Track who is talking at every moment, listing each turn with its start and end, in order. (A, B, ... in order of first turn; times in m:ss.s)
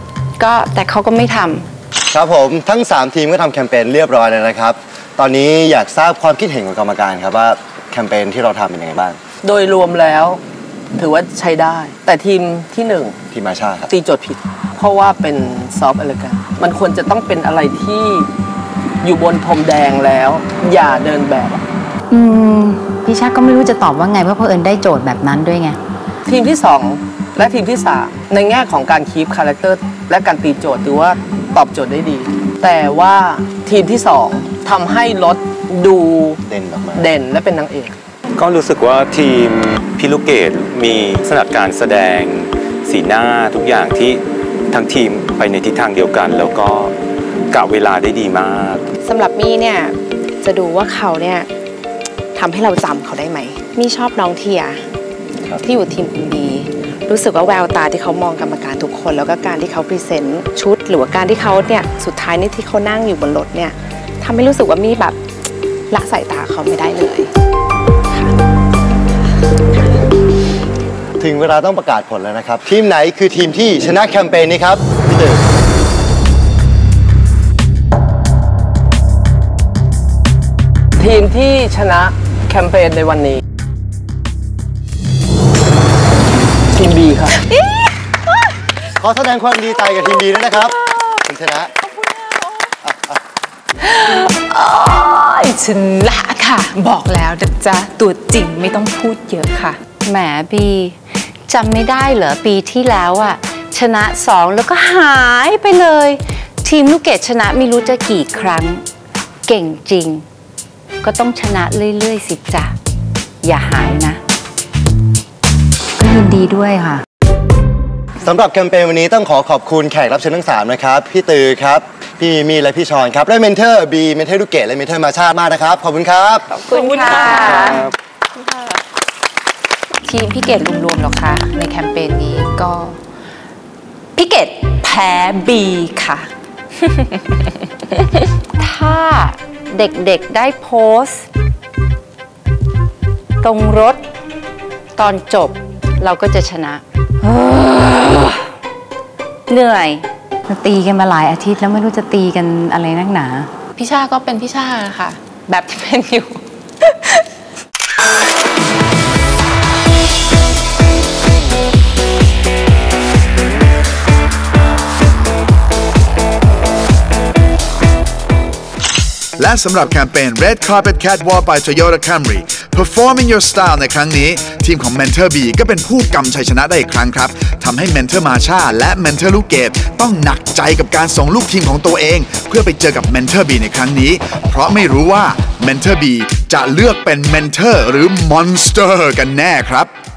0:00.4-0:01.7 A
0:02.1-0:09.2 B
0:09.4-0:10.4 C
0:11.0-0:13.2 C
0:13.3-0:13.9 B
0:13.9-0:18.3 C
0:19.0-0:21.6 C
0:22.1-0:25.8 D
0:26.3-0:36.4 C
0:36.5-0:37.1 B
0:37.0-0:38.0 C
0:38.4-0:46.9 E
0:47.5-0:48.9 E
0:49.0-0:51.5 F
0:52.4-0:54.9 F
0:55.5-1:05.2 F
1:05.9-1:07.3 F
1:09.7-1:10.0 F
1:11.2-1:15.4 B
1:21.0-1:23.4 C
1:26.8-1:27.4 C
1:29.0-1:31.7 B
1:32.8-1:33.2 B
1:33.9-1:39.8 G
1:40.0-1:48.8 A
1:49.5-1:50.2 A
1:51.0-1:52.7 A
1:53.4-1:54.2 A
1:56.0-1:57.0 D
1:58.2-2:06.5 B
2:06.5-2:07.8 G
2:06.7-2:07.9 A
2:10.0-2:13.0 G
2:14.2-2:16.3 G
2:18.6-2:21.3 A
2:23.4-2:24.0 A
2:25.0-2:28.4 A
2:29.5-2:30.1 A
2:30.5-2:33.5 D
2:33.8-2:36.4 G
2:49.4-3:09.9 H